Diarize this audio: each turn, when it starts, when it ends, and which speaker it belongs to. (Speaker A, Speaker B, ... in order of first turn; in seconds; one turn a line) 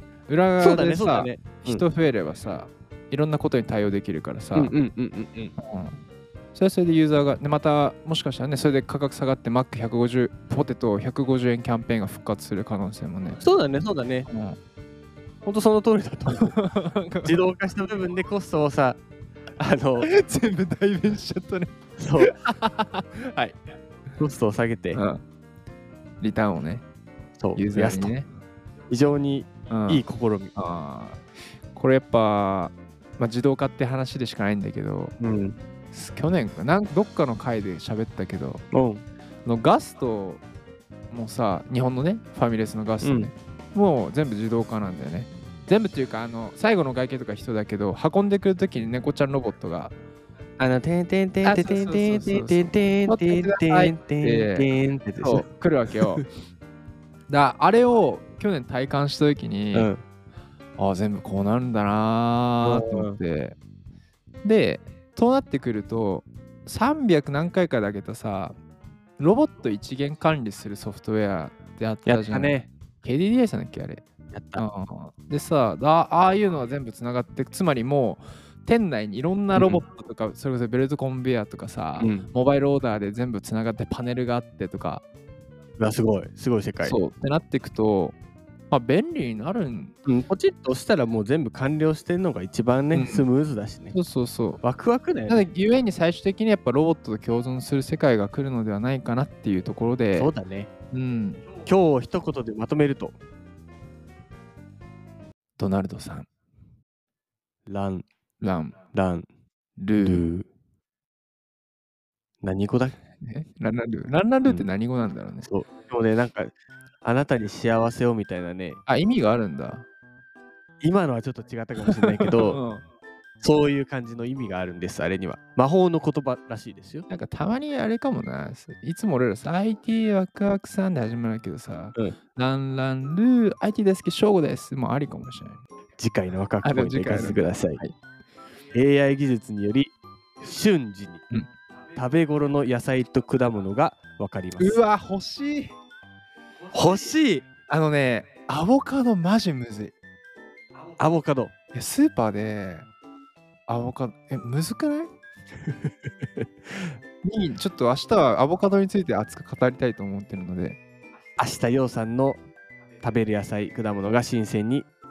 Speaker A: 0.3-4.7
Speaker B: 0.6-1.9
Speaker B: 4.5-5.5
Speaker A: 5.6-6.0
Speaker A: 6.5-13.4
Speaker B: 13.4-14.3
Speaker A: 14.3-14.6
Speaker B: 15.4-16.6
Speaker A: 16.3-17.4
Speaker B: 17.2-19.0
Speaker B: 19.6-20.1
Speaker A: 20.0-23.6
Speaker B: 22.0-22.3
Speaker B: 24.2-25.0
Speaker A: 24.9-25.2
Speaker A: 26.2-26.8
Speaker B: 27.4-28.1
Speaker A: 27.6-28.3
Speaker B: 28.9-30.5
Speaker A: 29.7-30.0
Speaker A: 30.6-35.1
Speaker B: 35.2-35.6
Speaker A: 35.9-38.6
Speaker B: 38.7-39.0
Speaker A: 39.4-40.4
Speaker A: 41.1-49.9
Speaker B: 43.0-43.3
Speaker B: 50.6-55.5
Speaker A: 51.4-56.2
Speaker B: 56.0-56.2
Speaker A: 57.3-59.9
Speaker B: 59.7-60.0
Speaker A: 60.8-63.5
Speaker B: 62.6-63.2
Speaker A: 64.4-68.5
Speaker A: 69.2-74.0
Speaker B: 72.0-72.7
Speaker B: 74.3-74.7
Speaker A: 74.6-85.0
Speaker B: 79.5-79.8
Speaker B: 82.0-82.3
Speaker B: 85.8-87.0
Speaker A: 86.8-88.2
Speaker A: 88.7-90.0
Speaker B: 90.0-94.0
Speaker A: 92.9-93.2
Speaker A: 93.9-94.6
Speaker B: 94.6-95.4
Speaker A: 95.3-100.3
Speaker B: 100.1-100.7
Speaker A: 100.9-101.4
Speaker B: 101.6-103.2
Speaker A: 105.6-106.3
Speaker B: 107.7-108.0
Speaker A: 108.4-108.8
Speaker B: 108.9-109.3
Speaker A: 109.8-110.3
Speaker B: 110.0-110.5
Speaker B: 112.4-113.0
Speaker A: 113.2-115.5
Speaker B: 115.4-118.8
Speaker A: 118.9-119.8
Speaker B: 120.8-122.6
Speaker A: 121.9-122.8
Speaker B: 123.4-127.1
Speaker A: 127.1-135.6
Speaker B: 136.0-137.8
Speaker A: 136.6-137.9
Speaker B: 138.7-141.2
Speaker B: 141.9-144.8
Speaker A: 144.6-145.7
Speaker B: 146.7-147.5
Speaker A: 147.7-149.9
Speaker B: 151.0-151.5
Speaker A: 151.7-152.8
Speaker A: 153.7-155.1
Speaker B: 155.7-156.9
Speaker A: 157.2-160.8
Speaker B: 161.4-162.4
Speaker B: 163.0-164.9